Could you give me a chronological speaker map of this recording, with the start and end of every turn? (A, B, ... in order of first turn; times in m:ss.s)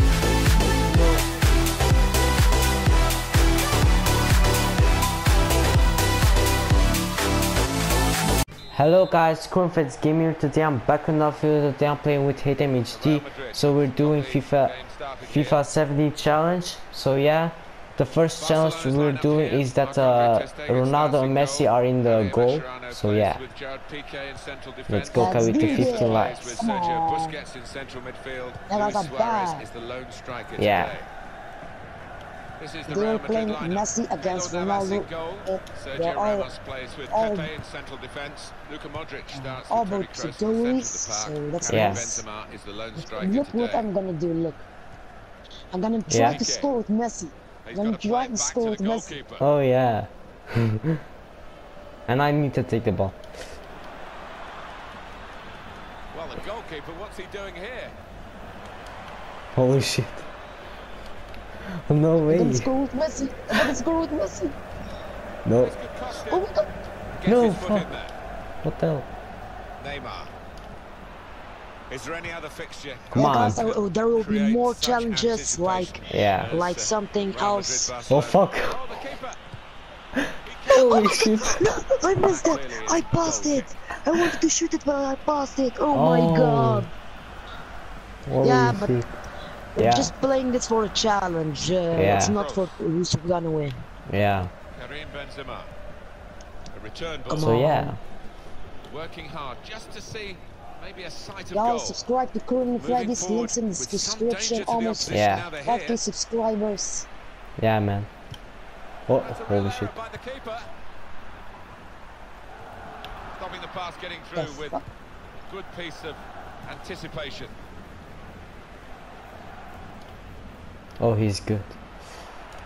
0:08.7-0:23.4 A
0:12.9-0:15.6 B
0:18.4-0:31.1 B
0:24.9-0:26.5 A
0:25.1-0:27.4 C
0:28.7-0:29.6 C
0:30.6-0:30.9 A
0:32.6-0:43.9 B
0:32.9-0:36.5 C
0:37.1-0:37.5 C
0:39.3-0:42.2 C
0:41.7-0:42.1 A
0:43.0-0:44.7 C
0:45.7-0:49.2 C
0:46.1-0:46.4 A
0:46.2-0:46.7 B
0:47.6-0:49.5 B
0:49.4-0:51.0 A
0:52.1-0:53.2 A
0:56.1-0:57.9 B
0:59.5-1:00.3 A
1:01.9-1:02.7 A
1:02.3-1:04.6 C
1:05.4-1:05.7 A
1:05.6-1:08.2 B
1:06.2-1:06.7 C
1:07.2-1:07.9 A
1:08.6-1:09.1 A
1:09.8-1:10.3 B
1:11.9-1:19.4 B
1:13.1-1:13.6 A
1:13.1-1:17.9 C
1:16.1-1:16.6 A
1:18.1-1:18.8 A
1:20.2-1:21.6 A
1:20.4-1:21.3 B
1:20.7-1:26.9 C
1:22.2-1:23.7 B
1:25.9-1:26.9 A
1:28.2-1:29.1 A
1:28.4-1:29.0 C
1:29.7-1:33.8 C
1:29.8-1:30.1 A
1:31.9-1:32.4 A
1:32.2-1:32.8 B
1:34.1-1:34.5 A
1:34.7-1:35.7 B
1:36.7-1:37.6 B
1:37.3-1:38.0 C
1:37.4-1:38.0 A
1:38.9-1:42.0 B
1:41.5-1:47.1 C
1:42.8-1:46.0 B
1:45.1-1:45.5 A
1:47.6-1:48.1 A
1:49.1-1:49.9 A
1:49.2-1:50.7 B
1:53.3-1:54.8 B
1:54.3-1:54.8 C
1:55.5-1:57.5 B
2:01.0-2:01.8 A